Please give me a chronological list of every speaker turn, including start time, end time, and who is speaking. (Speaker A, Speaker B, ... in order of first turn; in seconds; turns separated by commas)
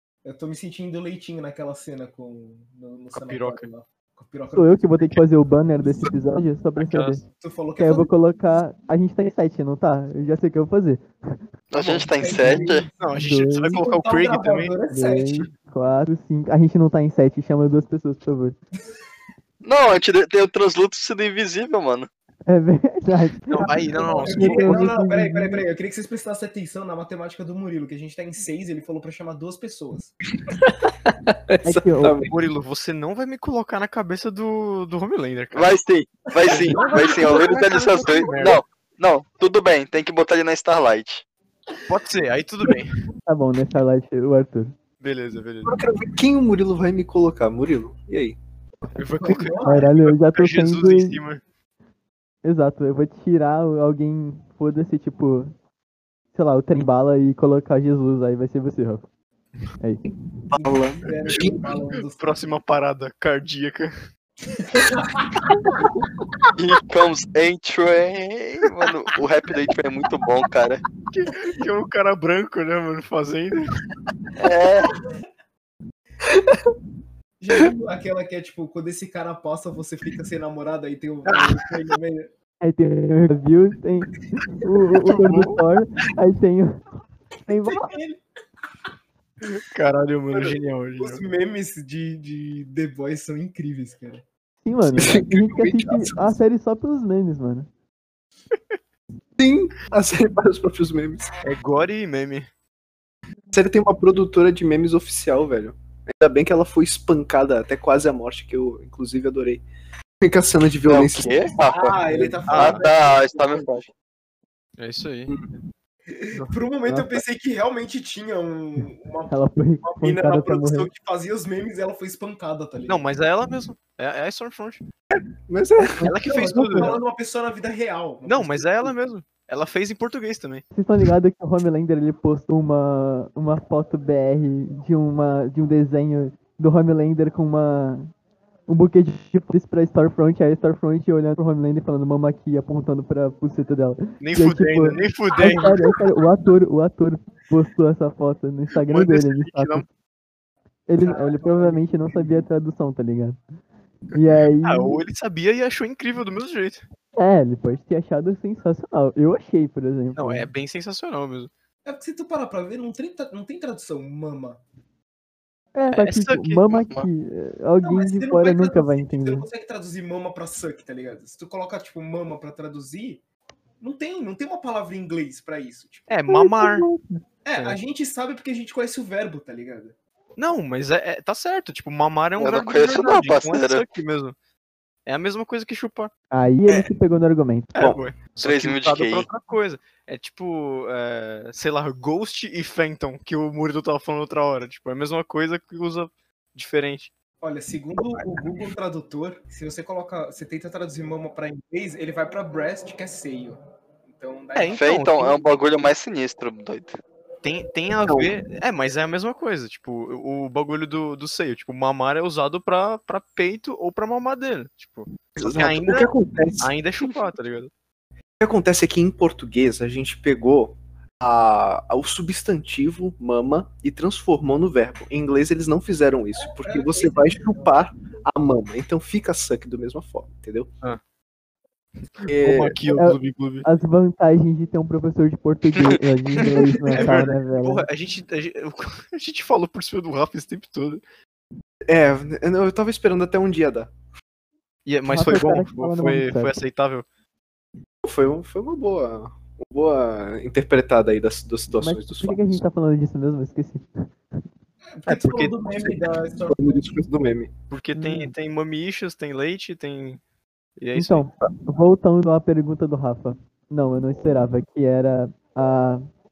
Speaker A: 0.2-5.2, Speaker B: 3.1-3.7, Speaker C: 4.5-7.2, Speaker B: 6.8-7.2, Speaker A: 7.4-8.1, Speaker C: 7.8-11.4, Speaker D: 11.7-12.9, Speaker B: 11.8-14.7, Speaker A: 11.8-13.1, Speaker C: 13.2-13.8, Speaker A: 13.7-15.5, Speaker C: 14.9-18.6, Speaker D: 19.6-22.1, Speaker C: 22.5-25.6, Speaker B: 23.5-24.8, Speaker A: 23.7-30.1, Speaker E: 30.5-32.3, Speaker C: 31.6-32.2, Speaker B: 32.3-35.7, Speaker D: 35.5-41.2, Speaker A: 36.4-38.4, Speaker B: 36.5-38.6, Speaker B: 41.9-43.0, Speaker C: 43.3-44.7, Speaker B: 45.0-45.8, Speaker E: 45.6-48.4, Speaker B: 48.9-51.4, Speaker A: 49.2-49.9, Speaker C: 49.6-51.2, Speaker C: 52.4-55.5, Speaker C: 56.3-59.0, Speaker D: 60.5-61.0, Speaker A: 61.0-62.4, Speaker E: 61.3-61.7, Speaker B: 62.1-63.9, Speaker A: 64.6-65.3, Speaker D: 66.6-70.8, Speaker B: 71.1-73.6, Speaker D: 74.4-74.9, Speaker E: 76.2-76.7, Speaker A: 77.4-82.3, Speaker C: 82.6-86.8, Speaker B: 85.0-85.7, Speaker C: 87.5-87.9, Speaker A: 87.6-88.2, Speaker B: 89.5-91.2, Speaker A: 90.3-94.2, Speaker C: 94.6-97.7, Speaker E: 94.9-96.4, Speaker E: 99.4-101.3, Speaker B: 101.4-102.5, Speaker E: 103.5-109.6, Speaker E: 110.2-111.5, Speaker D: 110.8-112.0, Speaker A: 111.7-113.9, Speaker E: 112.0-112.4, Speaker B: 112.5-112.8, Speaker D: 112.5-113.9, Speaker B: 114.8-115.3, Speaker E: 115.3-115.5, Speaker A: 116.1-123.0, Speaker E: 116.8-117.2, Speaker C: 119.3-120.9, Speaker B: 122.9-124.8, Speaker E: 125.5-126.1, Speaker B: 126.0-127.0, Speaker A: 126.1-128.9, Speaker B: 128.2-130.6, Speaker C: 130.7-138.1, Speaker C: 138.7-149.8, Speaker B: 144.2-145.8, Speaker A: 145.3-146.1, Speaker B: 148.8-149.8, Speaker C: 150.9-153.4, Speaker A: 151.0-152.4, Speaker C: 154.1-155.0, Speaker B: 154.6-156.8, Speaker C: 157.2-160.5, Speaker B: 160.2-161.5, Speaker A: 161.8-164.6, Speaker C: 165.7-169.5, Speaker B: 165.9-166.9, Speaker A: 167.8-173.2, Speaker A: 173.8-176.2, Speaker B: 176.1-176.9, Speaker C: 176.3-177.2, Speaker A: 177.4-179.9, Speaker B: 180.4-184.3, Speaker D: 182.4-183.8, Speaker B: 185.1-186.1, Speaker C: 186.3-187.8, Speaker B: 187.7-197.1, Speaker D: 188.4-189.3, Speaker A: 197.4-204.8, Speaker B: 198.0-198.4, Speaker B: 204.5-205.4, Speaker D: 204.7-206.9, Speaker B: 207.4-217.7, Speaker E: 208.0-208.3, Speaker E: 215.4-216.7, Speaker E: 218.4-230.7, Speaker A: 226.4-227.8, Speaker B: 232.1-233.7, Speaker E: 232.3-232.8, Speaker C: 232.9-237.9, Speaker B: 236.9-241.0, Speaker E: 241.9-243.9, Speaker B: 244.8-247.0, Speaker C: 245.1-246.6, Speaker E: 248.0-252.6, Speaker C: 251.8-254.1, Speaker A: 254.9-257.1, Speaker B: 255.1-255.6, Speaker E: 255.7-257.5, Speaker B: 257.7-260.2, Speaker C: 257.9-258.3, Speaker B: 260.8-261.3, Speaker C: 260.9-266.0